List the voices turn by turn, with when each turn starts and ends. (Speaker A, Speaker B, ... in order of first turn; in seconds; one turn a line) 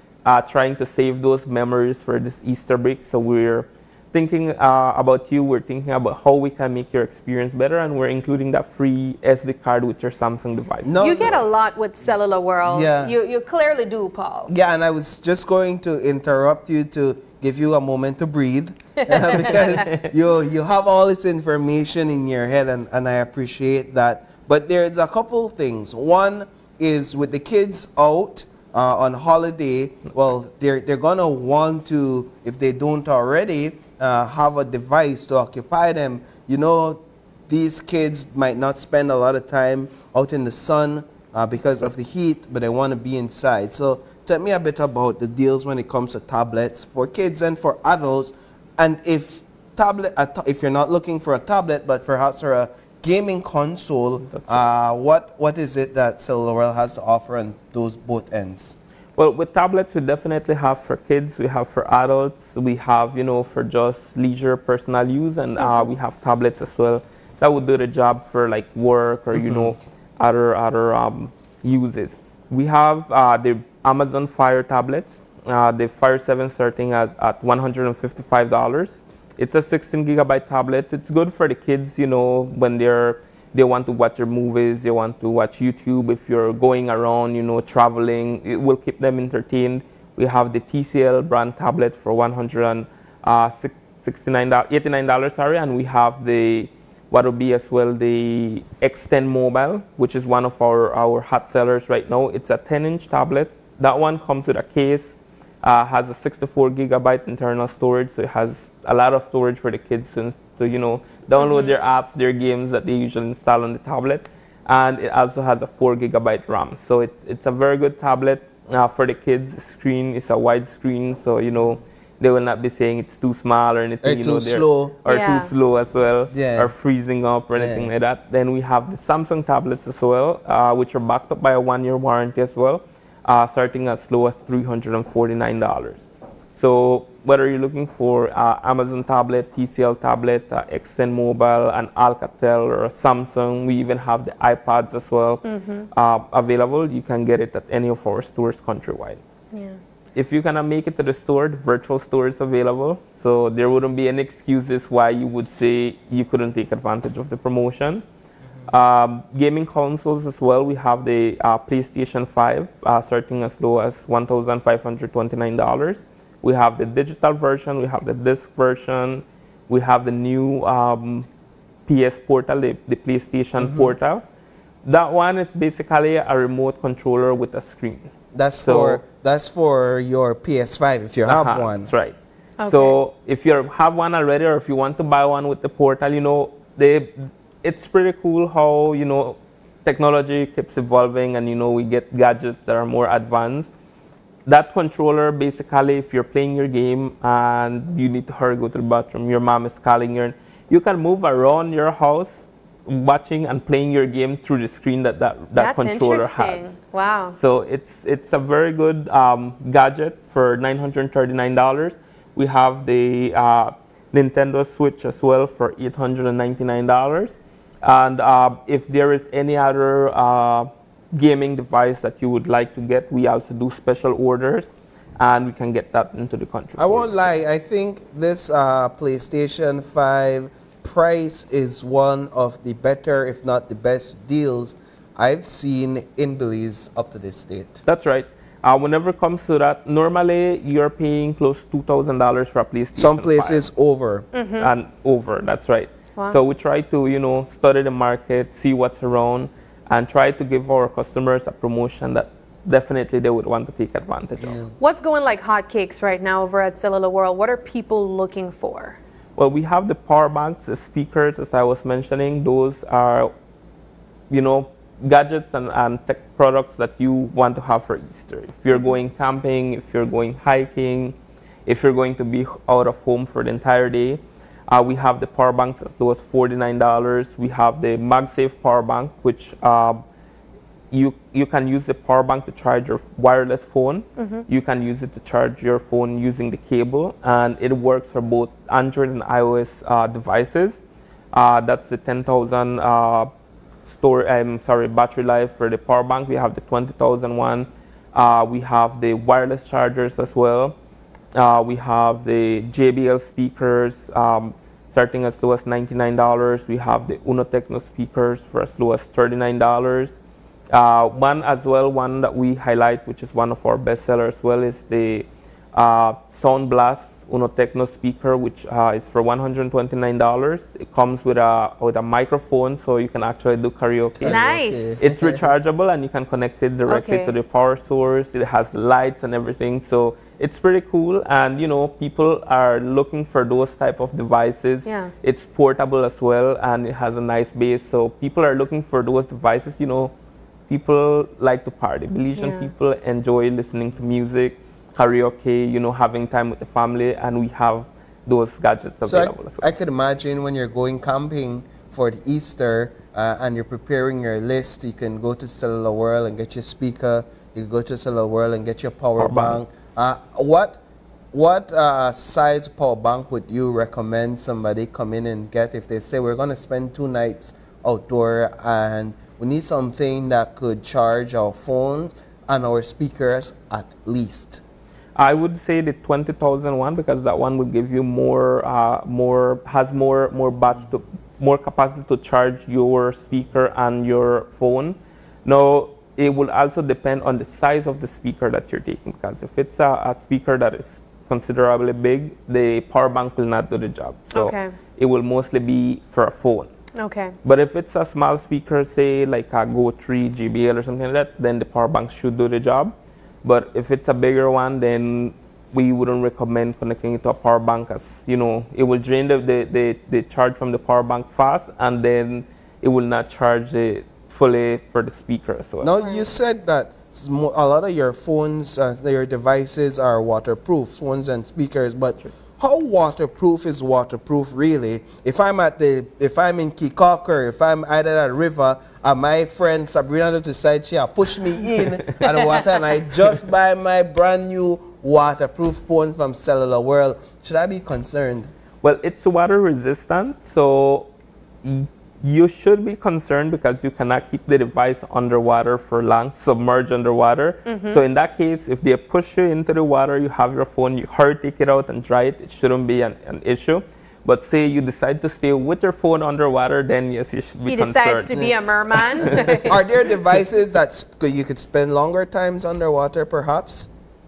Speaker A: 0.2-11.4
Speaker B: 10.8-11.4
Speaker C: 11.0-14.5
Speaker B: 12.6-13.1
Speaker B: 14.5-58.8
Speaker C: 19.0-19.8
Speaker A: 19.4-20.1
Speaker A: 54.2-54.7
Speaker A: 59.1-149.2
Speaker B: 69.4-69.7
Speaker C: 111.4-111.7
Speaker B: 124.0-125.0
Speaker C: 125.0-125.5
Speaker B: 126.3-126.7
Speaker B: 127.5-127.9
Speaker C: 145.4-145.9
Speaker C: 149.5-149.8
Speaker A: 150.1-158.0
Speaker A: 158.7-171.3
Speaker A: 171.9-174.2
Speaker B: 173.6-173.9
Speaker A: 174.8-179.0
Speaker B: 178.3-181.9
Speaker A: 181.2-193.7
Speaker C: 182.6-183.0
Speaker A: 194.4-206.7
Speaker C: 205.5-207.4
Speaker A: 207.3-227.3
Speaker B: 226.8-237.8
Speaker A: 237.8-243.7
Speaker B: 242.9-244.3
Speaker C: 244.3-244.7
Speaker A: 244.6-254.6
Speaker B: 254.4-254.7
Speaker C: 254.8-259.0
Speaker A: 259.4-263.3
Speaker A: 264.3-280.0
Speaker A: 280.9-290.8
Speaker C: 284.2-284.4
Speaker A: 291.3-293.3
Speaker A: 293.8-300.8
Speaker A: 301.3-310.1
Speaker A: 310.7-324.4
Speaker B: 324.2-325.5
Speaker C: 324.3-325.0
Speaker A: 325.0-340.1
Speaker C: 326.9-327.3
Speaker C: 334.9-335.1
Speaker A: 340.7-349.7
Speaker C: 342.4-342.7
Speaker B: 349.0-360.8
Speaker A: 359.2-359.6
Speaker B: 361.3-374.6
Speaker A: 375.1-396.7
Speaker C: 394.3-394.7
Speaker C: 396.9-397.4
Speaker A: 397.4-415.9
Speaker B: 415.8-438.5
Speaker A: 438.8-441.1
Speaker A: 441.6-459.7
Speaker C: 447.7-448.0
Speaker C: 457.7-459.8
Speaker B: 459.2-463.9